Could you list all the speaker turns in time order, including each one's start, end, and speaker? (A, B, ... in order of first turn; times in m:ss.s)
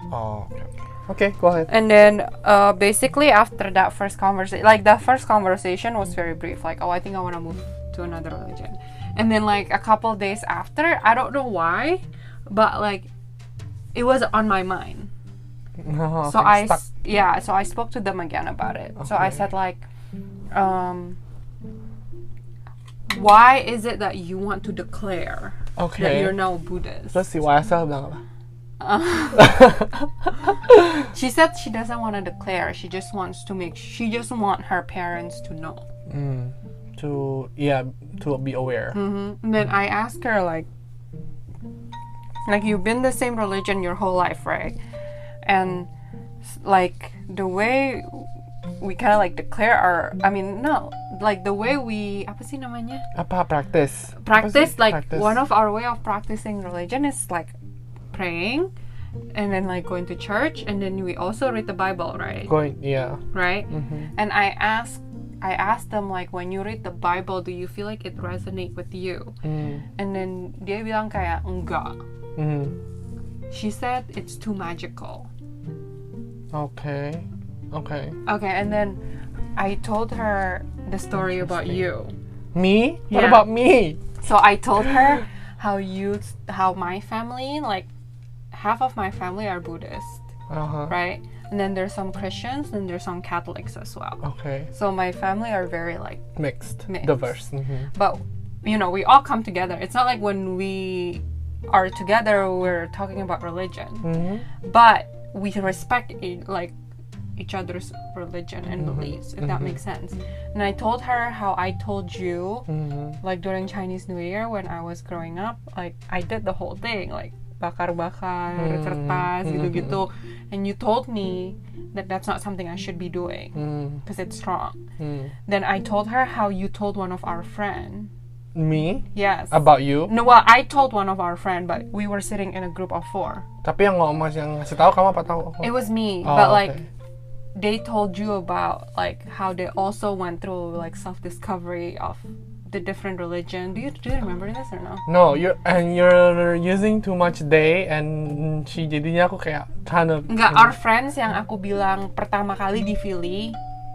0:00.1-0:01.7 A
0:01.7-0:13.1 B
0:14.0-0:15.1 B
0:15.8-0:16.8 A
0:16.2-0:19.9 B
0:19.0-0:19.4 A
0:20.5-0:21.2 B
0:23.1-0:27.2 B
0:25.8-0:26.4 A
0:27.1-0:28.2 A
0:28.8-0:29.7 B
0:29.4-0:30.8 A
0:31.0-0:35.8 B
0:36.1-0:39.0 A
0:38.9-0:40.7 B
0:42.5-0:44.8 B
0:45.4-0:45.9 B
0:46.4-0:48.3 B
0:48.8-0:53.1 B
0:53.1-0:55.4 A
0:54.2-0:57.5 B
0:58.1-0:58.7 B
0:59.3-1:02.5 B
1:02.5-1:04.1 A
1:03.3-1:09.3 B
1:09.4-1:09.8 A
1:10.0-1:12.0 B
1:12.4-1:12.8 A
1:13.5-1:15.3 B
1:16.5-1:18.2 A
1:18.2-1:19.0 B
1:19.6-1:22.2 B
1:21.2-1:21.8 A
1:22.5-1:24.0 A
1:23.1-1:23.5 B
1:24.2-1:27.9 B
1:28.5-1:30.2 B
1:30.5-1:30.9 A
1:30.9-1:36.2 B
1:34.2-1:34.7 A
1:36.4-1:37.9 A
1:36.9-1:44.1 B
1:44.0-1:44.4 A
1:44.6-1:46.7 B
1:47.4-1:52.7 B
1:48.8-1:49.8 A
1:52.7-1:53.2 A
1:53.2-2:04.8 B
1:58.6-2:00.0 A
2:03.6-2:04.0 A
2:05.0-2:05.3 A
2:05.5-2:08.1 B
2:08.6-2:10.1 A
2:09.1-2:13.4 B
2:13.6-2:16.9 A
2:15.6-2:16.8 B
2:17.6-2:25.0 B
2:25.1-2:30.8 A
2:30.3-2:33.6 B